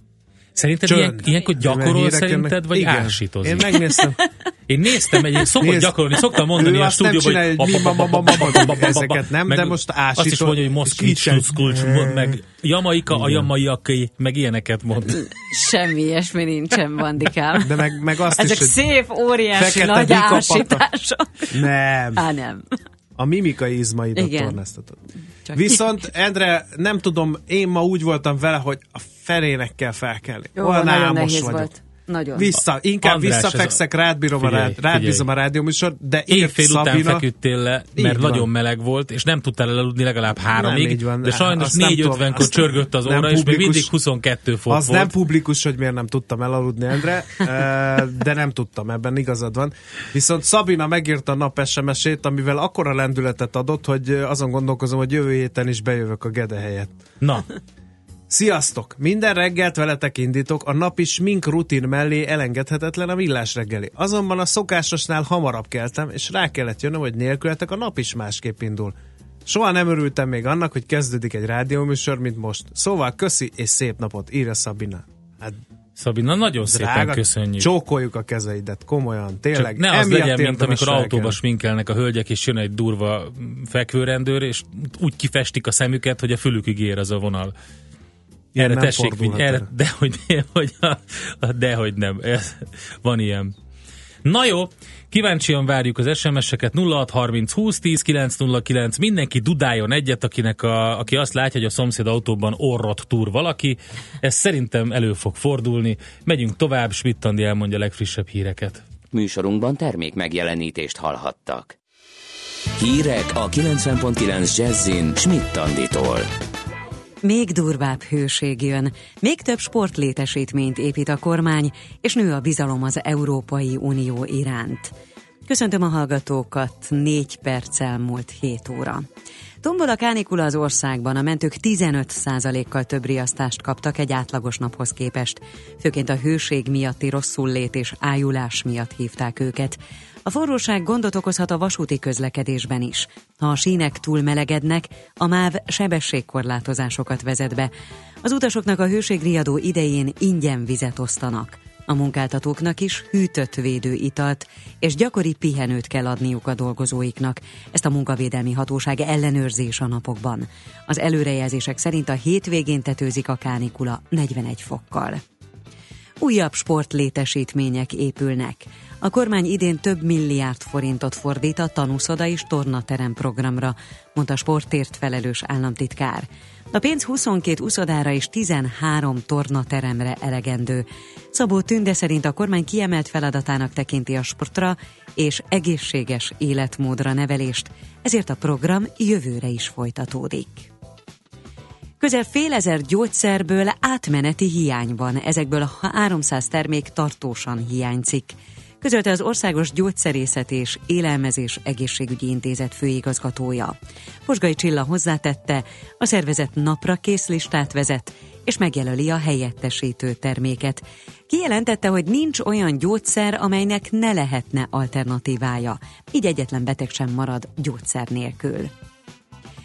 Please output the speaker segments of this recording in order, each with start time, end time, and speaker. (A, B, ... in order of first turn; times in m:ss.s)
0:00.6-0:03.7 A
0:00.8-0:04.2 B
0:04.7-0:15.2 A
0:05.6-0:12.4 B
0:13.1-0:13.5 B
0:15.2-0:22.7 C
0:17.6-0:18.8 B
0:19.5-0:20.8 B
0:21.5-0:22.3 B
0:23.2-0:25.0 B
0:24.2-0:24.6 C
0:25.4-0:26.0 C
0:25.5-0:31.7 B
0:30.6-0:32.5 C
0:32.3-0:37.2 B
0:33.0-0:33.8 A
0:34.4-0:35.2 A
0:36.3-0:45.1 A
0:38.0-0:38.5 B
0:40.5-0:43.9 B
0:44.7-0:57.0 B
0:57.2-0:57.5 A
0:58.3-1:15.6 B
1:16.0-1:17.7 A
1:16.6-1:21.4 B
1:19.5-1:27.5 A
1:28.5-1:29.7 B
1:28.6-1:33.5 A
1:34.2-1:48.8 A
1:49.1-1:51.8 D
1:52.8-1:56.3 D
1:57.2-2:04.9 C
2:05.5-2:09.1 C
2:09.6-2:27.7 C
2:28.2-2:45.2 C
2:46.2-3:10.7 C
3:12.0-3:38.7 C